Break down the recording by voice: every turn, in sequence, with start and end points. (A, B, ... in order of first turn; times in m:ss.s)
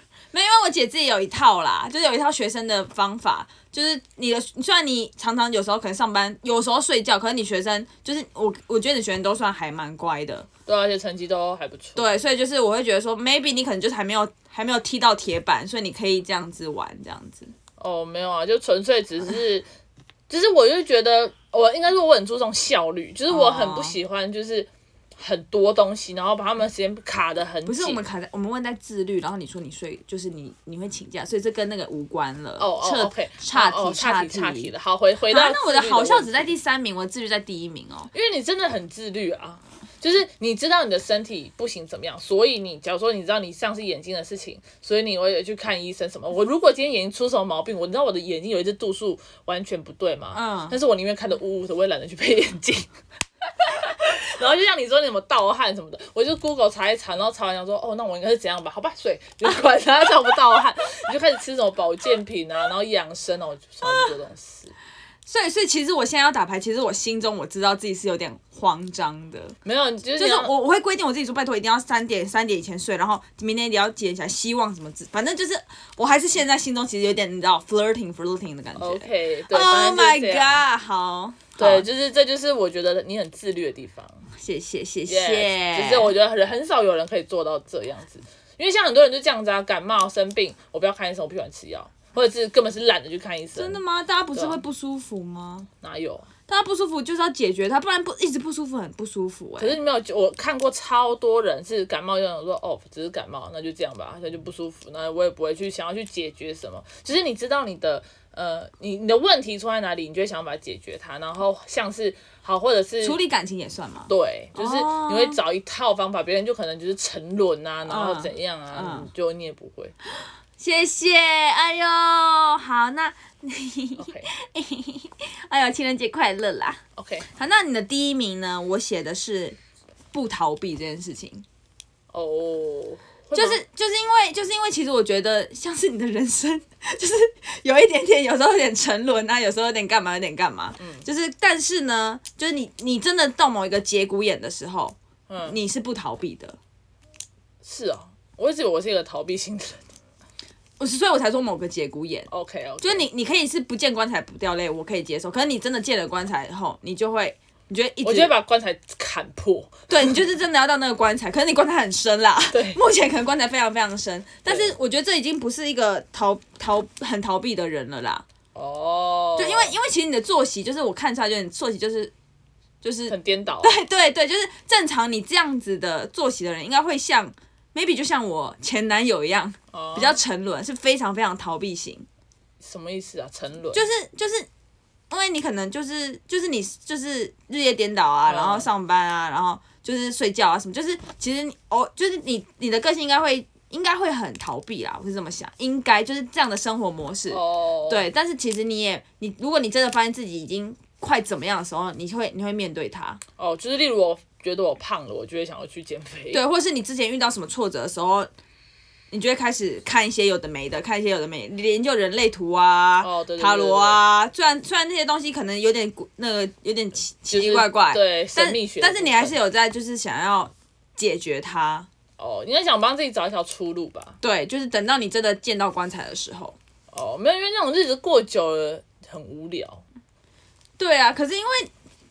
0:00.3-0:10.5 A
0:10.7-0:12.1 B
0:12.0-0:17.5 A
0:17.8-0:19.6 B
0:20.3-0:28.0 B
0:23.3-0:24.0 A
0:27.6-0:34.7 A
0:32.6-0:36.5 B
0:35.3-0:38.1 A
0:38.1-0:52.9 B
0:50.3-0:50.8 A
0:53.5-1:04.7 B
1:05.2-1:09.6 A
1:09.6-1:10.5 B
1:10.2-1:21.9 A
1:18.8-1:20.6 B
1:21.6-1:24.2 B
1:24.3-1:26.1 A
1:25.1-1:33.8 B
1:33.6-1:35.7 A
1:35.8-1:36.3 B
1:36.5-1:39.8 A
1:39.6-1:53.2 B
1:53.0-1:55.4 A
1:54.1-2:00.0 B
1:57.9-1:59.1 A
2:00.6-2:06.8 A
2:04.0-2:04.3 B
2:07.0-2:07.3 B
2:07.4-2:09.6 A
2:10.1-2:11.4 A
2:12.1-2:13.6 B
2:13.3-2:26.6 A
2:20.8-2:21.1 B
2:25.3-2:25.6 B
2:27.6-2:29.8 B
2:30.8-2:32.3 A
2:32.3-2:33.1 B
2:32.8-2:38.3 A
2:38.0-2:40.2 B
2:39.9-2:48.2 A
2:42.5-2:42.8 B
2:44.5-2:44.8 B
2:48.6-2:49.8 B
2:49.4-2:52.1 A
2:52.8-3:02.1 A
2:53.1-2:53.8 B
2:59.7-3:00.2 B
3:02.6-3:03.9 B
3:03.7-3:04.5 A
3:05.1-3:23.2 A
3:08.2-3:08.7 B
3:17.3-3:18.1 B
3:23.4-3:26.4 B
3:26.3-3:28.3 A
3:29.1-3:41.9 A
3:33.0-3:34.0 B
3:37.3-3:39.4 B
3:42.2-3:44.2 B
3:44.2-3:46.6 A
3:46.9-3:49.8 B
3:50.8-3:51.7 A